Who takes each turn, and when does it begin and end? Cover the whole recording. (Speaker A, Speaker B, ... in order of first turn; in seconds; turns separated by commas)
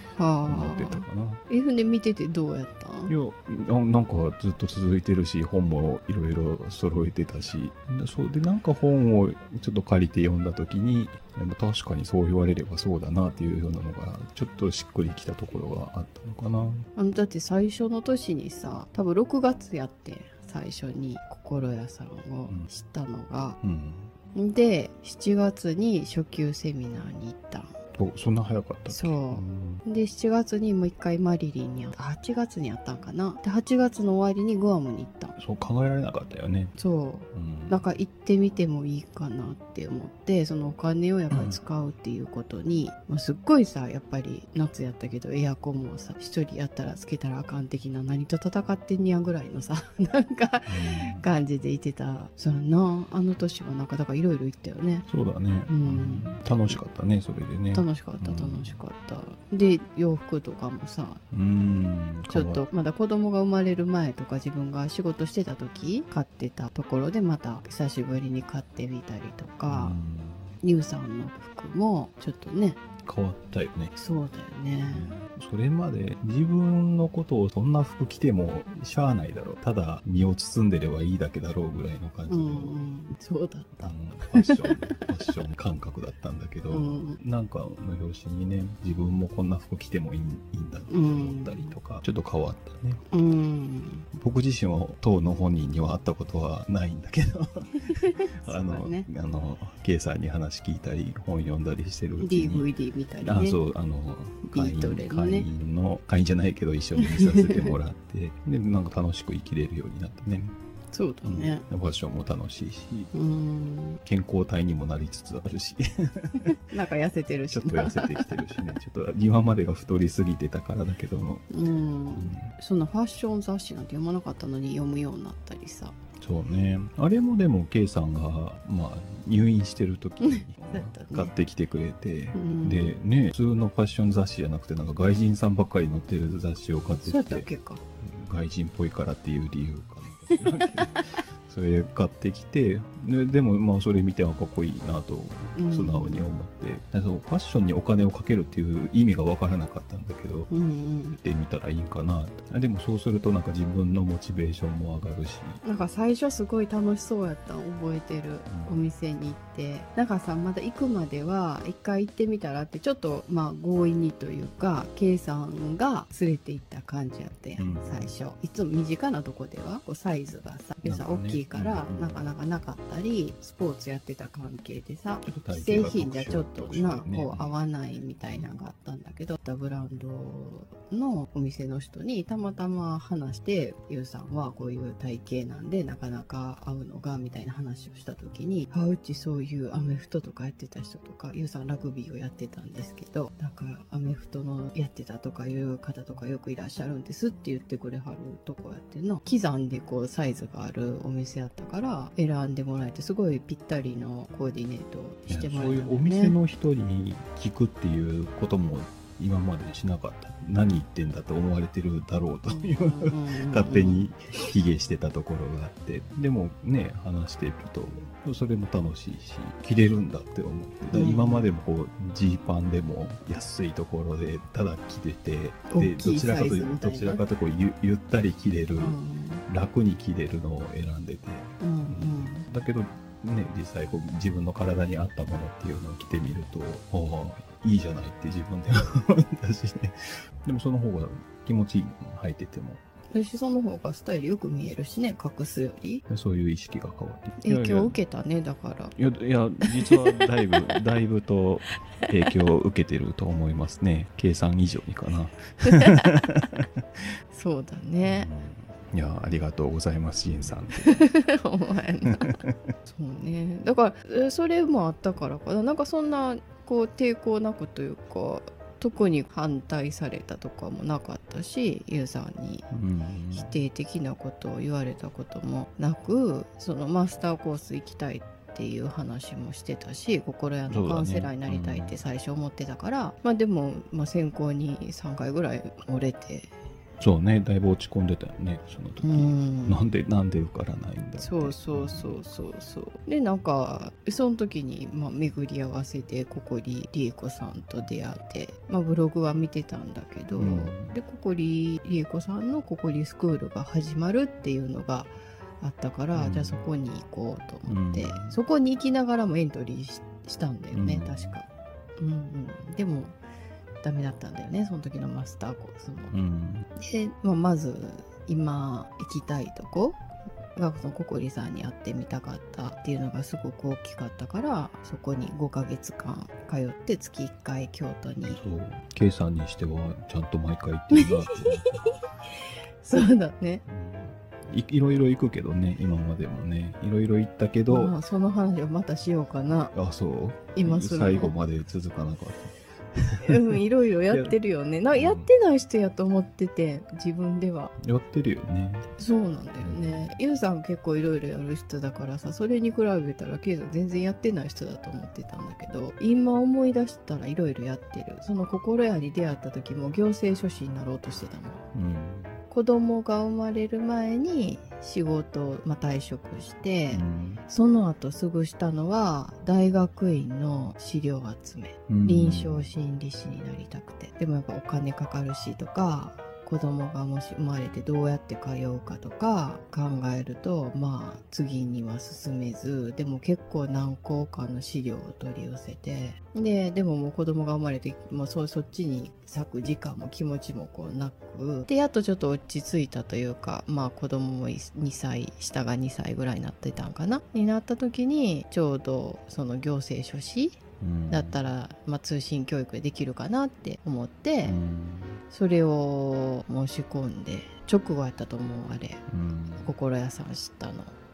Speaker A: 0.1-3.1, Speaker B: 0.5-1.4, Speaker B: 3.1-16.9, Speaker A: 16.9-23.6, Speaker B: 23.6-24.1, Speaker A: 24.3-27.7, Speaker B: 27.9-29.8, Speaker A: 28.9-35.3, Speaker B: 35.4-36.7, Speaker A: 36.8-55.1, Speaker B: 37.3-37.8, Speaker B: 41.3-41.6, Speaker B: 50.7-51.2, Speaker B: 55.1-58.8, Speaker A: 55.7-56.8, Speaker A: 57.7-61.2, Speaker B: 61.3-62.6, Speaker A: 62.3-70.0, Speaker B: 69.7-70.6, Speaker A: 70.6-72.8, Speaker B: 73.0-73.9, Speaker A: 74.0-75.2, Speaker B: 74.8-82.8, Speaker A: 82.3-84.7, Speaker B: 83.8-93.0, Speaker A: 86.7-87.2, Speaker A: 90.9-91.8, Speaker A: 93.1-94.0, Speaker B: 94.1-102.7, Speaker A: 97.8-99.1, Speaker A: 102.2-103.6, Speaker B: 103.2-110.5, Speaker A: 104.5-105.5, Speaker A: 107.0-107.7, Speaker A: 110.9-111.6, Speaker B: 111.2-113.1, Speaker A: 113.1-114.0, Speaker B: 114.0-116.6, Speaker A: 116.7-118.5, Speaker B: 117.5-121.4, Speaker A: 121.5-126.0, Speaker B: 122.2-122.5, Speaker B: 126.2-137.5, Speaker A: 130.2-131.3, Speaker A: 132.3-132.9, Speaker A: 137.0-137.8, Speaker B: 138.0-150.5, Speaker A: 140.3-140.7, Speaker A: 145.5-146.2, Speaker A: 150.5-151.2, Speaker B: 151.2-155.6, Speaker A: 155.6-206.4, Speaker B: 158.5-158.8, Speaker B: 167.6-168.1, Speaker B: 170.8-172.2, Speaker B: 175.2-177.5, Speaker B: 205.3-228.9, Speaker A: 212.5-214.1, Speaker A: 220.9-221.5, Speaker A: 225.7-227.2, Speaker A: 228.8-229.4, Speaker B: 229.5-242.8, Speaker A: 231.6-232.4, Speaker A: 243.1-246.0, Speaker B: 246.1-247.9, Speaker A: 247.4-248.9, Speaker B: 248.9-256.6, Speaker A: 249.7-250.2, Speaker A: 255.6-256.1, Speaker A: 257.3-258.3, Speaker B: 258.0-261.0, Speaker A: 260.8-272.7, Speaker B: 262.1-262.6, Speaker B: 272.7-273.5, Speaker A: 273.3-286.5, Speaker B: 280.7-281.9, Speaker B: 287.0-292.2, Speaker A: 289.0-289.8, Speaker A: 291.2-311.5, Speaker B: 300.4-300.9, Speaker B: 306.1-306.6, Speaker B: 307.6-308.4, Speaker B: 310.7-311.4, Speaker A: 312.0-313.2, Speaker A: 313.8-316.1, Speaker B: 316.1-316.6, Speaker A: 316.8-320.0, Speaker A: 320.5-328.4, Speaker B: 328.3-331.7, Speaker A: 330.9-331.9, Speaker A: 332.8-333.6, Speaker B: 333.7-337.9, Speaker A: 337.7-339.7, Speaker B: 339.7-343.6, Speaker A: 340.5-341.4, Speaker A: 343.2-347.7, Speaker B: 344.1-344.3, Speaker B: 344.9-345.3, Speaker B: 347.8-348.9, Speaker A: 349.0-361.6, Speaker B: 349.6-350.1, Speaker B: 361.7-362.4, Speaker A: 362.5-400.6, Speaker B: 366.9-367.4, Speaker B: 371.9-372.6, Speaker B: 400.8-401.4, Speaker A: 401.1-404.6, Speaker B: 404.4-405.2, Speaker A: 405.3-409.0, Speaker B: 409.1-409.7, Speaker A: 409.6-410.9